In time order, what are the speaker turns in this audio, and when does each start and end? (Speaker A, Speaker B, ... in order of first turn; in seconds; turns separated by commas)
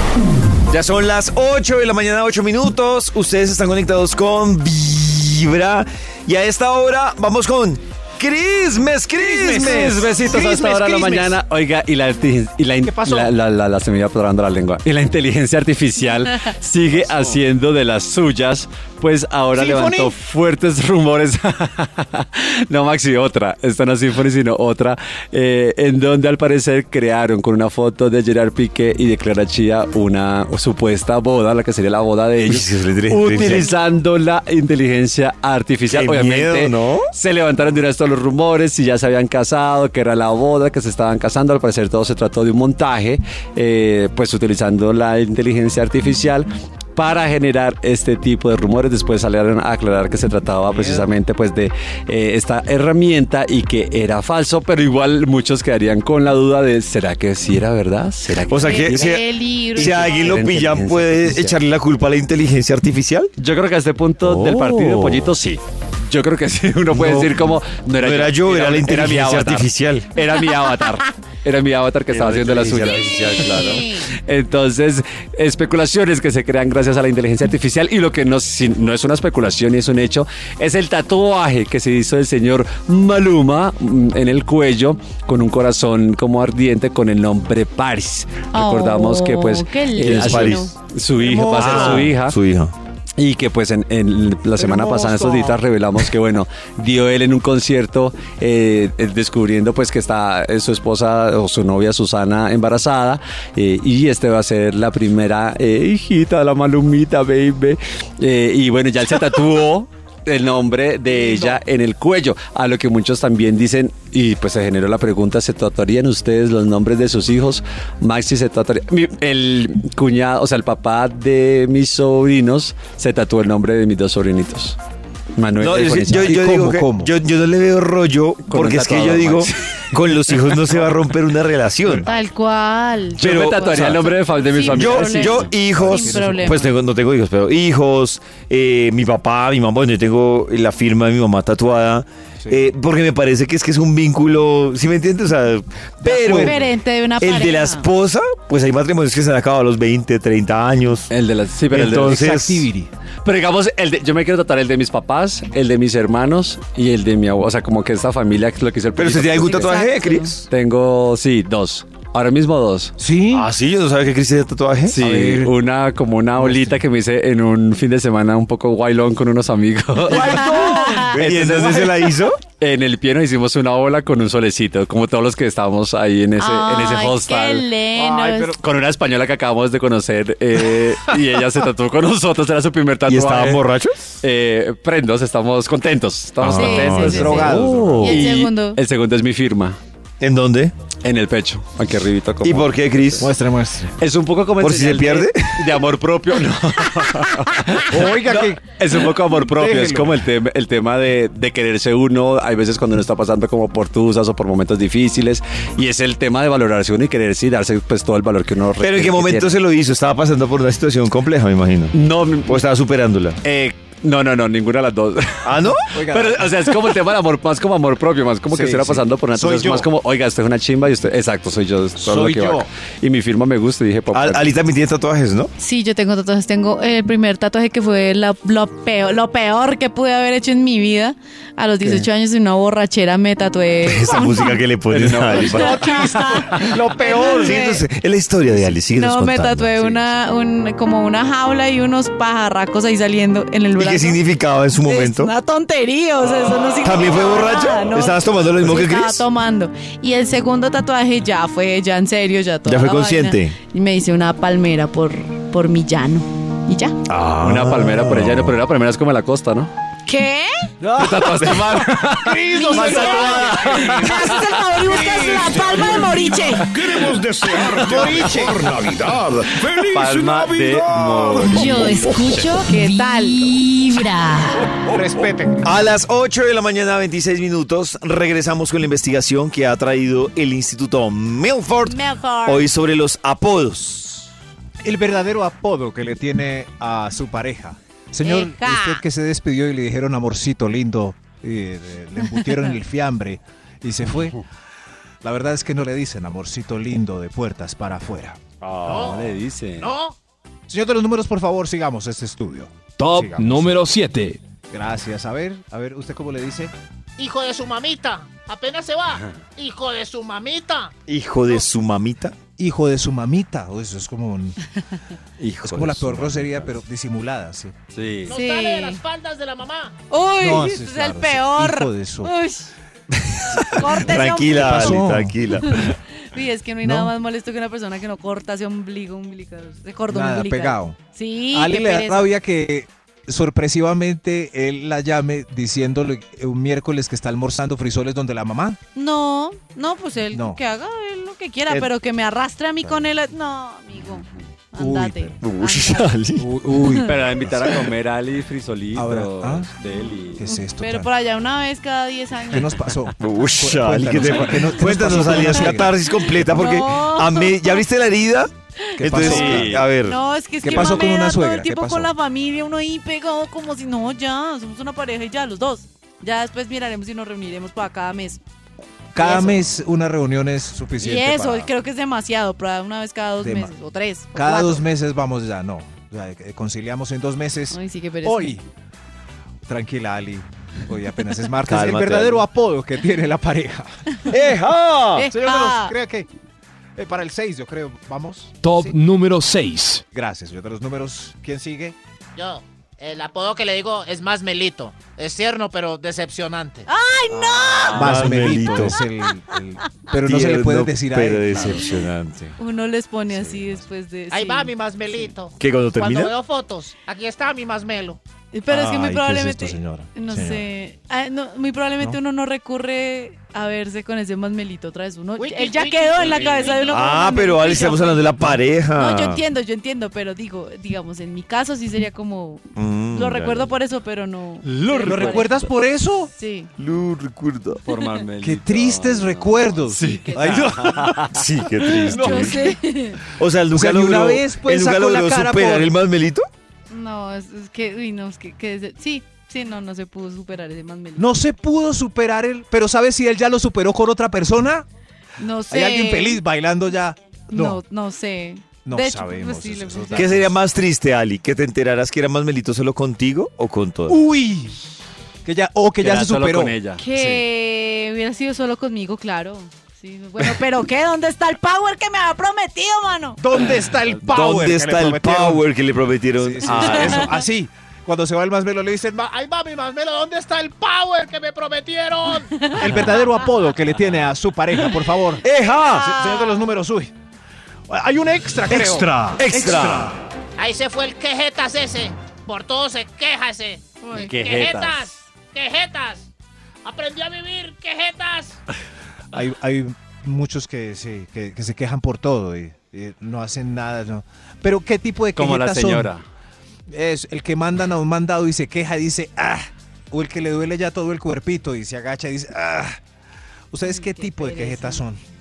Speaker A: 0.7-10.4, Speaker B: 9.2-10.3, Speaker C: 9.4-59.2, Speaker D: 10.3-11.1, Speaker B: 12.9-13.2, Speaker D: 19.6-20.1, Speaker A: 32.5-33.7, Speaker A: 35.9-37.1, Speaker B: 50.7-51.1, Speaker A: 58.5-63.3, Speaker E: 58.5-60.3, Speaker C: 59.7-61.5, Speaker C: 63.4-92.3, Speaker A: 64.2-65.3, Speaker A: 66.9-67.4, Speaker A: 68.0-70.1, Speaker A: 72.1-73.8, Speaker E: 73.4-74.1, Speaker E: 88.5-90.7, Speaker A: 90.0-90.7, Speaker B: 91.2-92.1, Speaker A: 91.4-92.7, Speaker C: 93.2-124.8, Speaker B: 94.6-95.5, Speaker C: 125.3-126.4, Speaker A: 125.6-132.1, Speaker B: 126.1-127.1, Speaker C: 128.5-130.3, Speaker E: 132.1-133.8, Speaker C: 133.2-135.5, Speaker A: 133.2-146.7, Speaker E: 134.3-136.7, Speaker B: 135.6-136.7, Speaker B: 146.0-146.7, Speaker E: 146.2-147.9, Speaker A: 147.2-151.1, Speaker C: 151.1-152.3, Speaker A: 151.7-152.7, Speaker B: 151.7-152.9, Speaker C: 153.2-159.8, Speaker A: 159.0-160.4, Speaker E: 159.5-160.3, Speaker C: 160.5-162.9, Speaker B: 163.0-163.5, Speaker A: 163.3-165.0, Speaker C: 164.9-170.6, Speaker B: 165.0-165.5, Speaker B: 166.4-166.8, Speaker A: 170.1-172.4, Speaker E: 170.2-171.1, Speaker B: 170.3-171.1, Speaker C: 171.1-171.9, Speaker C: 172.5-177.7, Speaker E: 176.4-178.6, Speaker B: 177.9-178.6, Speaker C: 178.5-183.6, Speaker A: 183.1-184.0, Speaker C: 184.2-189.8, Speaker A: 186.4-187.8, Speaker E: 186.5-188.8, Speaker B: 186.8-188.2, Speaker A: 190.2-190.7, Speaker C: 191.0-193.3, Speaker A: 192.4-193.3, Speaker B: 193.2-193.9, Speaker C: 194.0-209.6, Speaker A: 194.6-195.6, Speaker B: 197.9-198.6, Speaker B: 199.3-200.2, Speaker A: 208.8-213.4, Speaker C: 211.9-212.6, Speaker C: 213.4-224.5, Speaker A: 215.4-215.9, Speaker B: 215.9-216.7, Speaker B: 218.5-219.9, Speaker B: 222.0-222.7, Speaker A: 224.1-225.5, Speaker E: 225.6-234.6, Speaker A: 233.8-235.8, Speaker C: 234.9-236.8, Speaker E: 235.5-237.8, Speaker B: 235.6-237.5, Speaker A: 237.3-240.0, Speaker E: 238.9-244.2, Speaker A: 243.8-245.3, Speaker E: 244.8-257.0, Speaker A: 246.8-249.2, Speaker A: 252.7-253.6, Speaker A: 257.1-258.5, Speaker C: 257.4-259.7, Speaker E: 260.1-260.7, Speaker C: 260.8-264.6, Speaker B: 260.9-261.6, Speaker D: 262.2-264.0, Speaker E: 262.4-266.7, Speaker F: 264.8-272.3, Speaker D: 265.3-265.6, Speaker C: 267.7-268.4, Speaker D: 267.8-268.1, Speaker B: 267.8-268.6, Speaker C: 269.7-272.1, Speaker G: 271.6-274.6, Speaker E: 272.6-273.6, Speaker F: 274.8-275.2, Speaker B: 274.9-275.6, Speaker A: 275.6-284.3, Speaker E: 281.8-282.7, Speaker B: 284.8-294.4, Speaker E: 288.2-289.0, Speaker B: 295.2-298.4, Speaker C: 298.6-299.9, Speaker D: 298.9-300.1, Speaker B: 300.7-303.7, Speaker H: 303.0-304.4, Speaker B: 304.7-306.7, Speaker D: 307.2-310.9, Speaker C: 309.1-309.4, Speaker A: 311.1-312.4, Speaker B: 312.6-314.6, Speaker A: 315.4-316.8, Speaker B: 315.6-317.7, Speaker C: 317.9-318.3, Speaker D: 318.2-320.0, Speaker E: 318.3-319.0, Speaker E: 320.1-322.7, Speaker B: 320.4-322.3, Speaker B: 323.5-325.9, Speaker A: 323.6-325.9, Speaker E: 323.6-325.0, Speaker E: 326.2-332.3, Speaker B: 326.8-327.1, Speaker B: 330.1-331.0, Speaker B: 331.5-338.8, Speaker E: 338.9-346.2, Speaker B: 340.3-340.6, Speaker B: 342.8-343.1, Speaker B: 344.8-345.4, Speaker A: 345.4-346.4, Speaker B: 346.4-347.7, Speaker C: 347.0-350.4, Speaker B: 348.9-349.7, Speaker B: 350.4-351.1, Speaker E: 350.4-352.8, Speaker B: 352.5-355.9, Speaker A: 353.2-360.2, Speaker E: 356.1-357.8, Speaker B: 359.0-359.9, Speaker C: 359.1-359.9, Speaker E: 360.0-368.4, Speaker B: 360.6-362.1, Speaker A: 360.7-361.0, Speaker B: 369.1-371.7, Speaker E: 369.2-369.6, Speaker E: 371.0-374.8, Speaker B: 373.4-373.7, Speaker B: 374.3-378.6, Speaker E: 377.7-378.6, Speaker B: 379.6-383.9, Speaker A: 381.7-382.4, Speaker A: 384.3-385.3, Speaker E: 385.1-385.9, Speaker B: 385.3-386.3, Speaker B: 387.0-388.9, Speaker H: 388.6-390.0, Speaker B: 390.1-391.9, Speaker D: 392.4-396.9, Speaker E: 396.9-398.1, Speaker B: 397.5-402.0, Speaker A: 397.9-399.0, Speaker A: 400.2-402.6, Speaker E: 402.6-404.7, Speaker B: 403.3-403.7, Speaker D: 404.3-408.2, Speaker A: 405.6-406.3, Speaker E: 408.5-418.3, Speaker B: 408.7-410.7, Speaker D: 415.4-417.0, Speaker A: 416.9-419.4, Speaker E: 418.9-425.7, Speaker A: 422.8-423.7, Speaker C: 424.6-425.5, Speaker B: 425.0-426.3, Speaker E: 426.3-426.7, Speaker A: 426.8-427.8, Speaker C: 427.9-432.4, Speaker B: 428.4-431.3, Speaker E: 430.0-431.0, Speaker A: 431.3-432.6, Speaker E: 432.0-433.2, Speaker B: 432.1-432.8, Speaker A: 433.3-436.4, Speaker B: 433.7-435.9, Speaker E: 436.9-441.3, Speaker B: 441.2-444.8, Speaker E: 445.4-446.4, Speaker B: 445.7-447.8, Speaker E: 447.5-450.4, Speaker B: 448.8-450.5, Speaker A: 450.1-454.2, Speaker B: 454.1-454.8, Speaker B: 455.4-457.4, Speaker C: 456.0-457.1, Speaker E: 457.0-463.7, Speaker B: 463.4-465.6, Speaker A: 464.2-467.3, Speaker B: 466.4-469.2, Speaker E: 466.8-467.4, Speaker D: 469.2-472.6, Speaker E: 472.5-473.2, Speaker B: 472.7-477.1, Speaker A: 475.4-476.1, Speaker E: 475.8-476.7, Speaker B: 477.9-480.1, Speaker H: 478.7-480.0, Speaker A: 479.4-480.1, Speaker D: 480.6-486.3, Speaker E: 484.0-484.4, Speaker C: 484.1-485.2, Speaker D: 486.8-488.6, Speaker B: 489.3-496.1, Speaker C: 495.3-496.2, Speaker B: 496.9-503.0, Speaker B: 503.7-505.2, Speaker E: 503.8-505.0